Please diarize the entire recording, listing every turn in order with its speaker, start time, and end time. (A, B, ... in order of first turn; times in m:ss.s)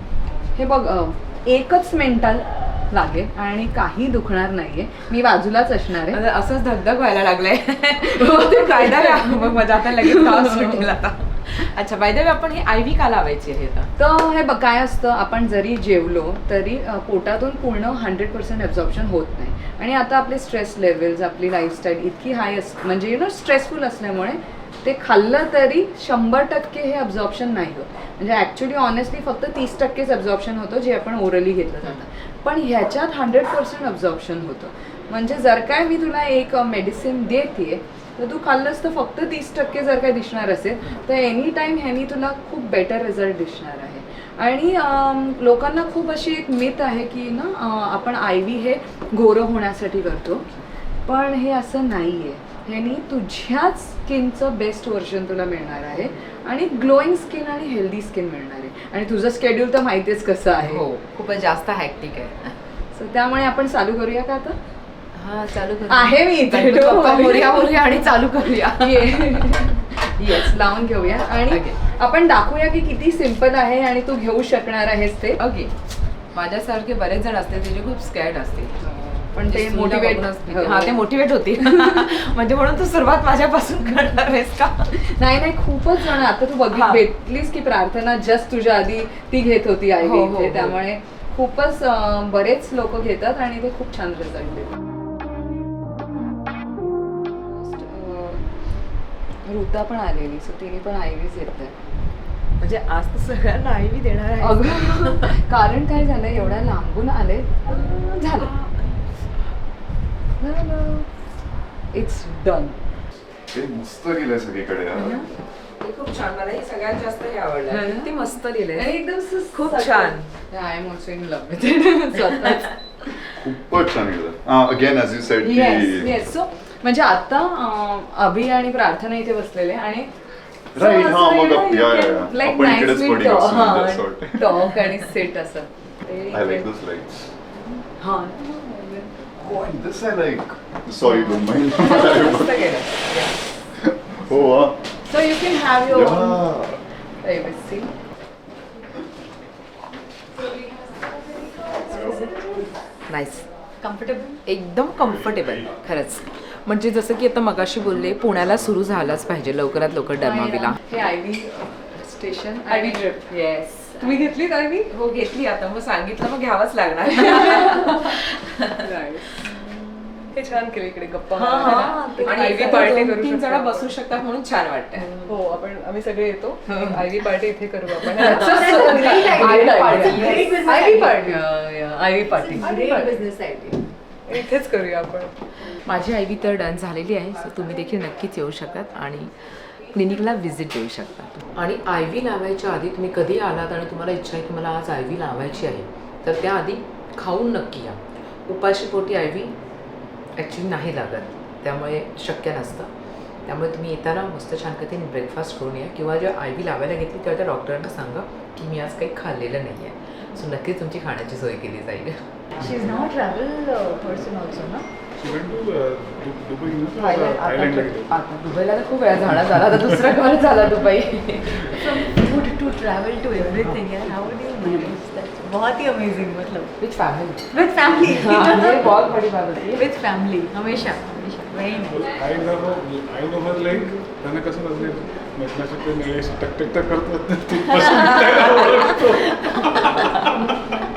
0:00.5-0:06.2 A
0:06.0-0:13.9 B
0:08.2-0:10.9 A
0:14.0-0:50.4 A
0:51.0-1:00.8 A
1:00.6-1:02.6 B
1:02.9-1:04.6 A
1:05.1-1:09.6 B
1:05.9-1:08.1 A
1:08.8-1:15.4 A
1:11.5-1:11.8 B
1:15.4-1:15.7 B
1:16.3-1:25.0 B
1:19.3-1:21.0 A
1:21.6-1:22.1 A
1:24.9-1:34.7 A
1:26.7-1:27.0 B
1:30.0-1:30.8 B
1:37.4-1:38.4 A
1:39.4-1:41.7 A
1:42.6-1:45.4 B
1:44.4-1:48.5 A
1:47.7-1:48.7 B
1:50.4-1:51.1 A
1:51.9-1:52.8 A
1:53.5-1:55.2 C
1:54.9-1:55.2 B
1:55.8-1:58.9 B
1:57.7-1:58.1 A
1:58.7-2:03.1 A
1:59.5-2:00.3 B
2:03.4-2:06.1 C
2:05.4-2:10.1 A
2:10.7-2:14.6 C
2:10.7-2:16.7 A
2:16.3-2:17.3 C
2:18.0-2:19.2 A
2:19.4-2:22.6 C
2:21.0-2:22.7 A
2:21.7-2:23.3 B
2:23.8-2:24.8 C
2:25.1-2:26.4 A
2:25.9-2:26.7 C
2:27.2-2:27.9 A
2:31.6-2:32.7 A
2:33.1-2:33.4 B
2:33.8-2:34.4 D
2:34.4-2:40.8 B
2:40.2-2:44.9 A
2:44.8-2:48.8 B
2:48.8-2:53.9 A
2:51.3-2:55.1 B
2:51.8-2:52.9 D
2:55.0-3:03.8 A
2:58.0-3:00.6 B
2:58.4-3:01.2 D
3:02.4-3:03.6 D
3:04.3-3:05.3 A
3:05.6-3:19.5 B
3:20.4-3:22.9 B
3:23.4-3:32.2 B
3:32.6-3:33.6 A
3:33.5-3:34.7 D
3:34.2-3:34.6 A
3:35.2-3:38.2 E
3:38.0-3:42.0 B
3:41.8-3:46.7 D
3:46.8-3:47.4 B
3:47.5-3:48.7 D
3:48.0-3:49.8 B
3:49.8-3:52.0 D
3:51.9-4:00.4 E